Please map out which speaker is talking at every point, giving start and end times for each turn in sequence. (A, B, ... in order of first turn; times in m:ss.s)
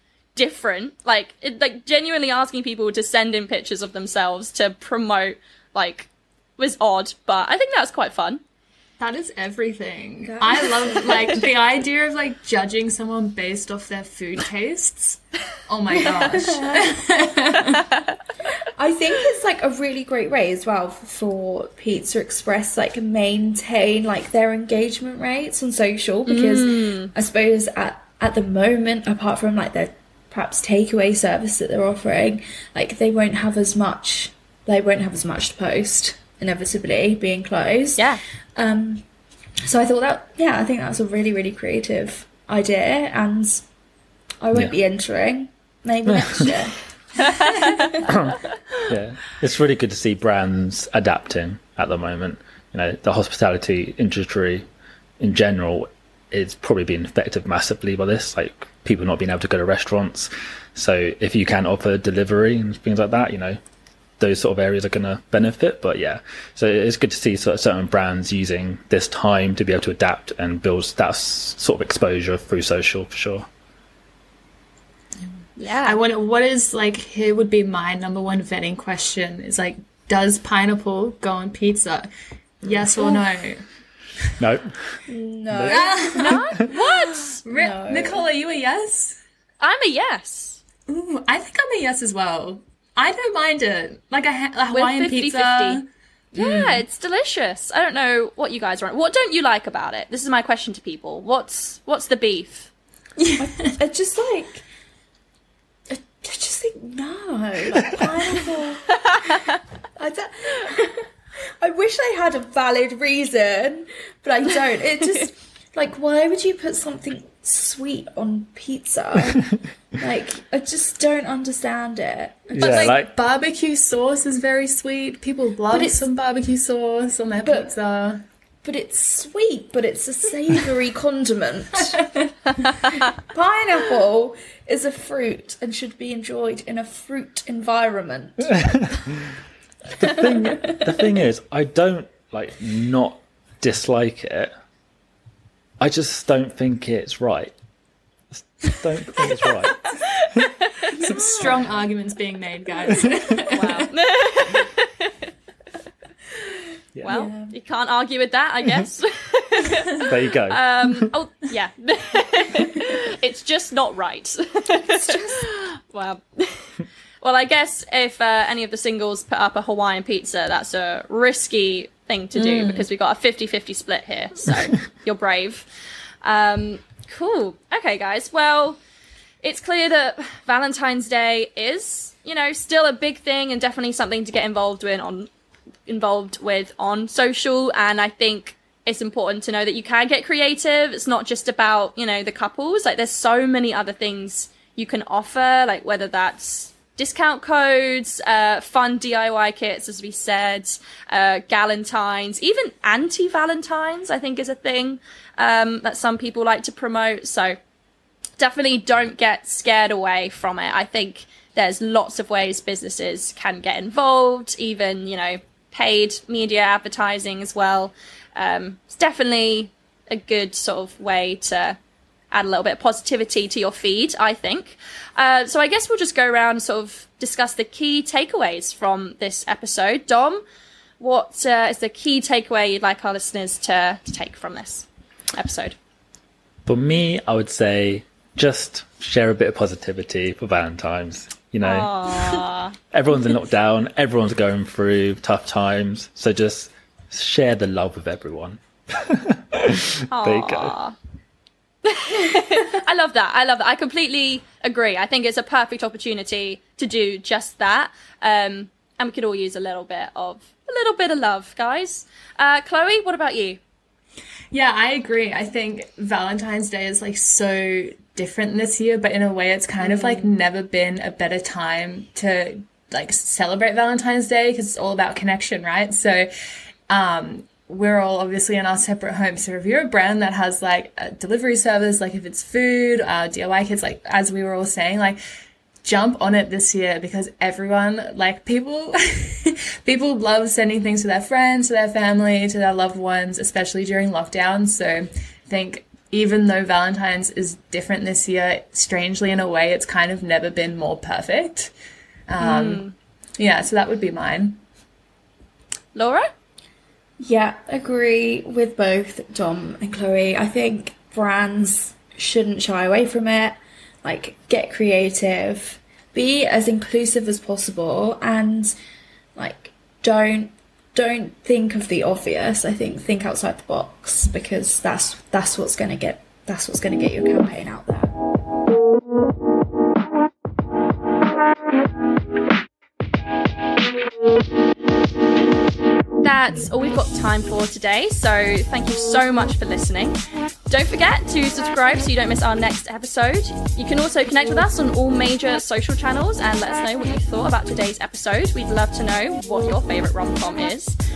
0:00.4-0:08.4 A
0:09.0-0:17.9 B
0:10.2-0:11.4 C
0:16.1-0:17.0 C
0:18.6-0:39.0 C
0:26.3-0:27.1 A
0:39.6-0:43.6 C
0:44.4-0:46.8 C
0:46.1-0:46.5 D
0:47.2-0:47.9 A
0:47.5-0:48.1 C
0:48.0-0:54.6 D
0:55.2-1:03.6 D
1:04.2-1:13.5 D
1:15.6-1:16.0 A
1:15.8-1:22.1 B
1:22.6-1:23.6 B
1:24.4-1:25.0 D
1:25.1-1:26.7 C
1:25.5-1:25.8 D
1:25.7-1:26.8 B
1:26.2-1:27.4 A
1:27.4-1:28.3 C
1:27.4-1:29.2 B
1:29.6-1:30.6 A
1:30.9-1:36.8 B
1:34.7-1:35.8 A
1:36.3-1:42.7 A
1:43.2-1:43.5 B
1:43.4-1:44.6 C
1:45.9-1:49.3 C
1:50.0-2:02.9 C
2:02.5-2:03.1 D
2:02.6-2:08.2 B
2:05.7-2:06.1 C
2:07.4-2:07.7 C
2:08.6-2:12.2 C
2:12.9-2:18.6 C
2:18.6-2:19.3 D
2:20.0-2:24.5 D
2:20.0-2:21.0 C
2:25.8-2:27.5 D
2:28.4-2:30.5 D
2:29.8-2:30.9 A
2:31.0-2:33.9 B
2:33.5-2:35.1 A
2:37.0-2:55.7 A
2:37.0-2:37.6 C
2:40.0-2:41.1 D
2:44.9-2:45.5 C
2:52.4-2:52.9 B
2:56.2-2:58.8 A
2:59.4-3:05.3 A
3:05.9-3:27.6 A
3:28.4-3:41.8 A
3:42.3-3:50.4 A
3:51.0-3:55.8 A
3:56.7-4:10.8 D
4:01.6-4:02.7 A
4:10.1-4:11.0 A
4:11.8-4:23.6 A
4:24.5-4:36.3 B
4:29.8-4:30.3 A
4:36.9-4:45.2 B
4:45.8-5:01.7 B
5:02.3-5:02.8 B
5:02.4-5:02.9 A
5:03.4-5:04.6 B
5:06.0-5:06.3 A
5:07.2-5:18.8 C
5:19.4-5:28.2 C
5:36.2-5:40.2 A
5:40.7-5:51.0 A